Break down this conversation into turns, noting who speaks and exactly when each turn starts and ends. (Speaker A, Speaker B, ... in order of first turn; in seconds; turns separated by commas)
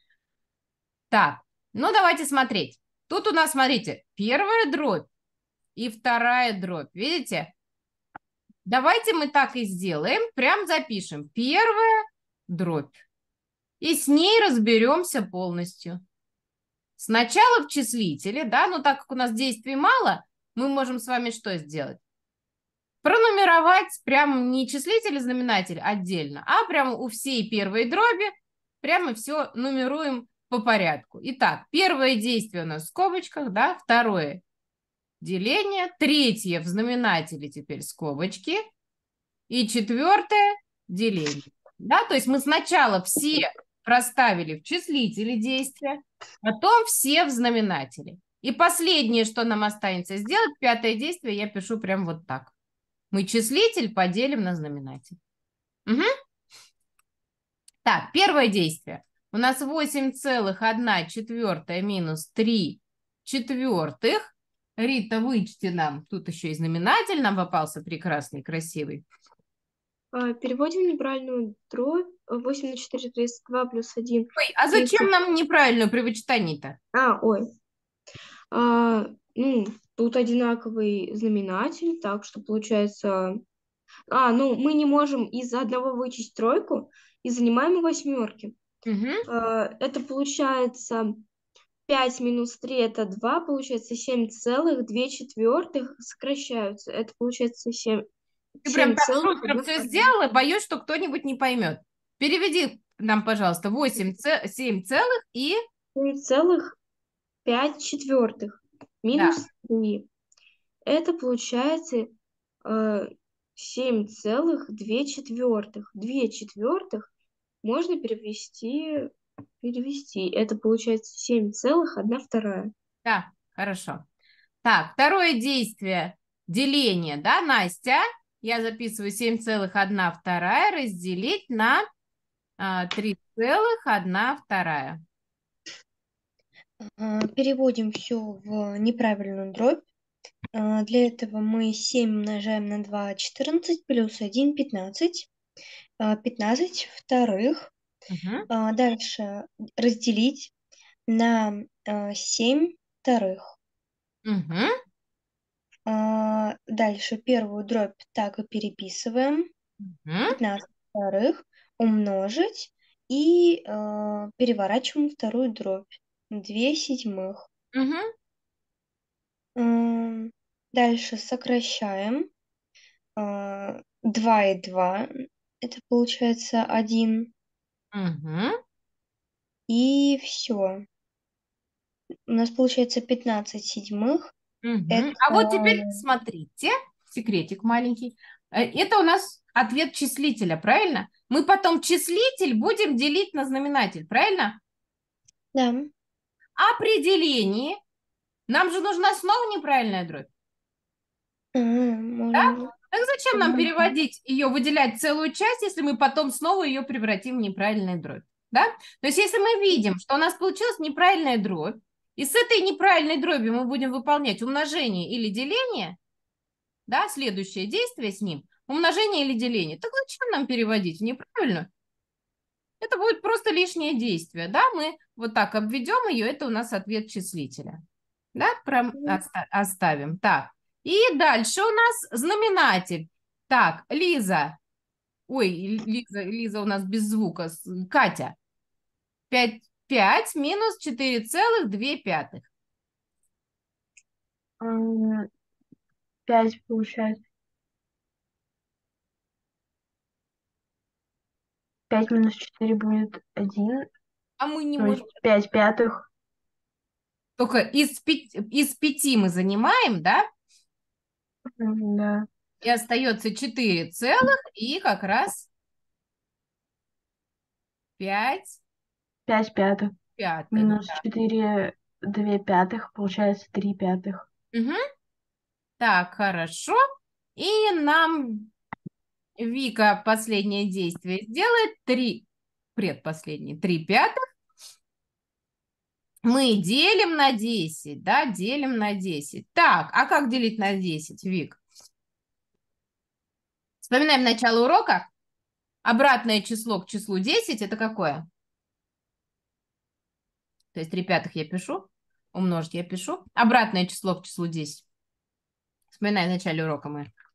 Speaker A: 1.1-5.1, Speaker A: 5.8-7.5, Speaker A: 8.6-13.0, Speaker A: 13.8-16.0, Speaker A: 17.0-22.0, Speaker A: 23.0-34.4, Speaker A: 35.2-38.6, Speaker A: 39.5-52.5, Speaker A: 53.1-55.2, Speaker A: 57.8-69.0, Speaker B: 70.1-75.1, Speaker A: 74.4-76.8, Speaker B: 76.9-77.5, Speaker B: 78.5-83.4, Speaker B: 84.1-88.6, Speaker A: 88.9-89.2, Speaker B: 89.3-91.2, Speaker B: 91.9-98.1, Speaker B: 98.6-100.1, Speaker A: 98.6-105.6, Speaker B: 106.0-106.8, Speaker B: 107.5-110.1, Speaker A: 109.1-109.4, Speaker B: 110.9-117.1, Speaker B: 117.6-122.7, Speaker A: 123.0-124.0, Speaker A: 124.6-131.8, Speaker A: 132.6-135.0, Speaker C: 136.8-139.9, Speaker C: 140.5-145.3, Speaker C: 146.0-147.7, Speaker A: 148.1-148.5, Speaker C: 148.5-150.5, Speaker C: 151.1-153.6, Speaker A: 154.2-154.7, Speaker C: 155.9-159.5, Speaker A: 159.8-160.4, Speaker C: 160.4-167.4, Speaker A: 167.7-168.1, Speaker C: 169.6-172.3, Speaker C: 173.2-177.3, Speaker A: 177.9-178.6, Speaker C: 179.7-180.8, Speaker C: 182.3-184.3, Speaker A: 184.6-194.6, Speaker C: 184.9-186.0, Speaker C: 195.5-195.9, Speaker A: 196.6-197.8, Speaker A: 198.5-200.3, Speaker C: 201.6-202.7, Speaker A: 202.4-216.0, Speaker C: 203.3-203.8, Speaker A: 216.9-221.7, Speaker A: 222.8-227.8, Speaker A: 228.3-234.6, Speaker A: 235.3-238.4, Speaker A: 239.3-242.5, Speaker D: 244.6-245.3, Speaker D: 246.3-247.2, Speaker D: 251.9-253.9, Speaker A: 254.4-255.1, Speaker D: 254.8-256.0, Speaker A: 257.4-260.3, Speaker D: 261.6-262.3, Speaker A: 262.6-265.5, Speaker A: 268.0-268.6, Speaker D: 269.3-269.9, Speaker A: 270.2-271.0, Speaker D: 270.5-274.3, Speaker A: 274.5-274.8, Speaker A: 275.8-276.8, Speaker A: 277.4-278.5, Speaker A: 279.4-284.1, Speaker A: 286.2-291.6, Speaker A: 293.8-295.1, Speaker A: 295.8-298.3, Speaker A: 300.7-304.9, Speaker A: 305.9-307.1